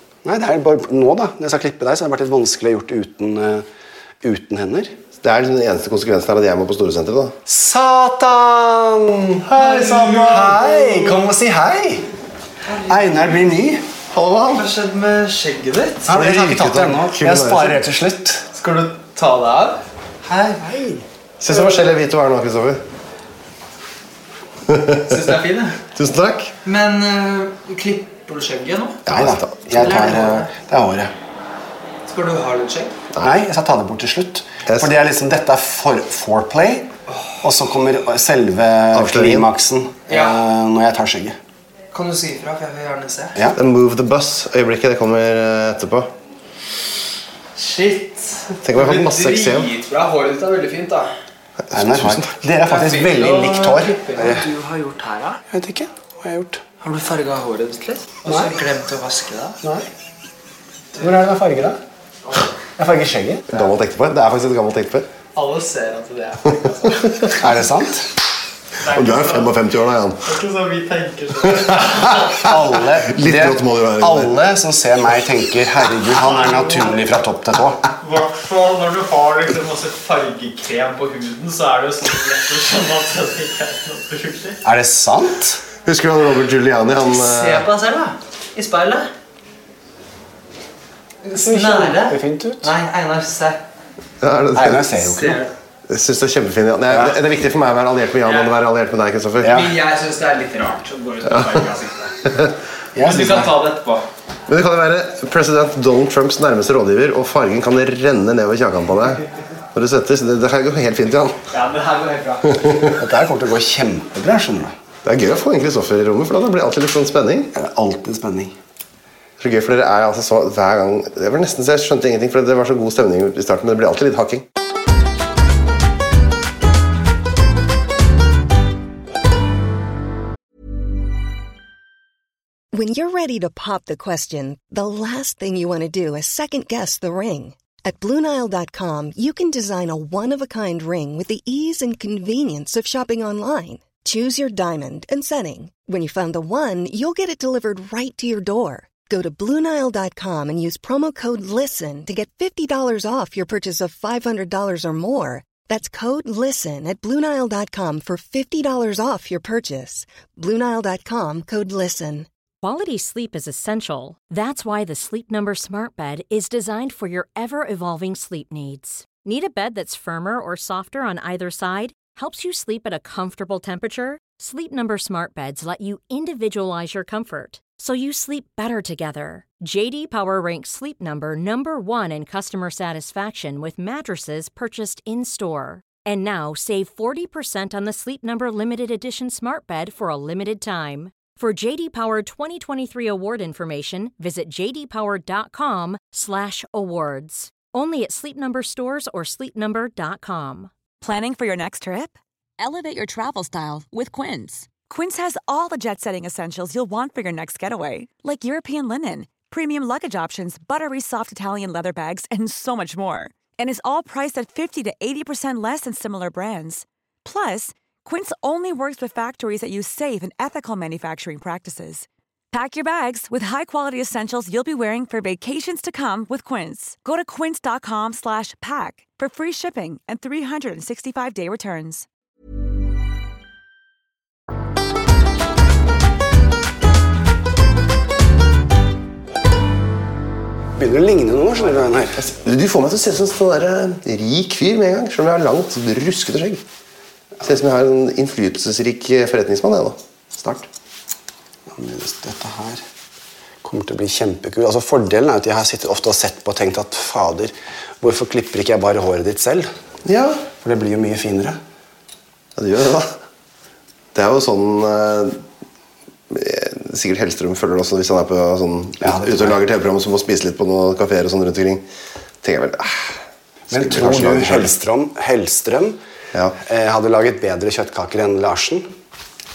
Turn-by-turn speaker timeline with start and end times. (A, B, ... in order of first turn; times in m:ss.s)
0:00.2-0:03.6 A
0:04.2-0:04.9 A
0:05.2-0:07.4 B
0:07.4-0:12.0 A
0:09.5-0:10.5 C
0:12.8-0:13.8 A
0:14.1-0:14.7 B
0:14.5-0:16.1 C
0:16.0-0:18.4 A
0:16.1-0:17.8 B
0:18.5-0:20.6 C
0:20.6-0:21.0 A
0:21.4-0:22.8 B
0:21.5-0:21.9 C
0:24.7-0:25.3 B
0:25.0-0:25.8 C
0:25.9-0:26.5 B
0:26.6-0:29.0 C
0:29.0-0:29.9 B
0:29.1-0:31.1 A
0:29.8-0:30.5 C
0:32.1-0:33.0 C
0:33.2-0:36.9 A
0:34.7-0:34.9 B
0:37.4-0:41.4 A
0:38.9-0:39.5 B
0:40.1-0:40.4 C
0:41.9-0:43.4 C
0:43.5-0:46.1 B
0:47.6-0:51.1 C
0:48.6-0:49.7 B
0:51.6-0:52.3 B
0:51.7-0:54.5 A
0:52.6-0:55.4 C
0:55.5-0:56.6 A
0:56.8-0:59.6 C
0:58.3-0:58.5 A
0:59.6-0:59.9 A
1:01.0-1:01.8 A
1:02.6-1:03.6 A
1:03.5-1:05.1 B
1:05.3-1:07.4 C
1:07.4-1:08.1 A
1:08.8-1:09.6 C
1:08.9-1:10.3 B
1:10.2-1:12.4 C
1:11.5-1:12.3 B
1:12.3-1:17.8 A
1:13.0-1:14.4 B
1:16.2-1:17.0 C
1:18.0-1:24.6 C
1:24.6-1:25.6 A
1:25.8-1:27.7 B
1:27.0-1:29.1 C
1:31.2-1:32.7 A
1:31.4-1:33.6 C
1:34.2-1:34.9 B
1:34.5-1:35.4 A
1:35.0-1:35.5 C
1:35.9-1:39.7 B
1:38.2-1:38.5 C
1:39.4-1:39.7 A
1:39.5-1:42.2 C
1:42.9-1:43.6 A
1:43.0-1:44.0 C
1:44.5-1:49.2 B
1:49.7-1:51.4 B
1:51.5-1:52.8 C
1:53.0-1:54.7 A
1:55.0-1:57.5 B
1:57.5-1:58.5 A
1:59.4-2:04.5 B
2:12.7-2:42.3 D
2:42.6-3:20.7 E
3:21.0-3:52.0 F
4:00.8-4:02.2 A
4:02.2-4:06.6 B
4:07.4-4:10.7 B
4:11.7-4:12.8 A
4:13.6-4:19.7 A
4:20.0-4:20.4 B
4:20.6-4:21.6 A
4:22.6-4:23.1 B
4:24.1-4:25.4 B
4:26.3-4:31.8 B
4:29.0-4:29.6 A
4:32.4-4:34.7 B
4:33.7-4:36.0 A
4:36.6-4:38.9 A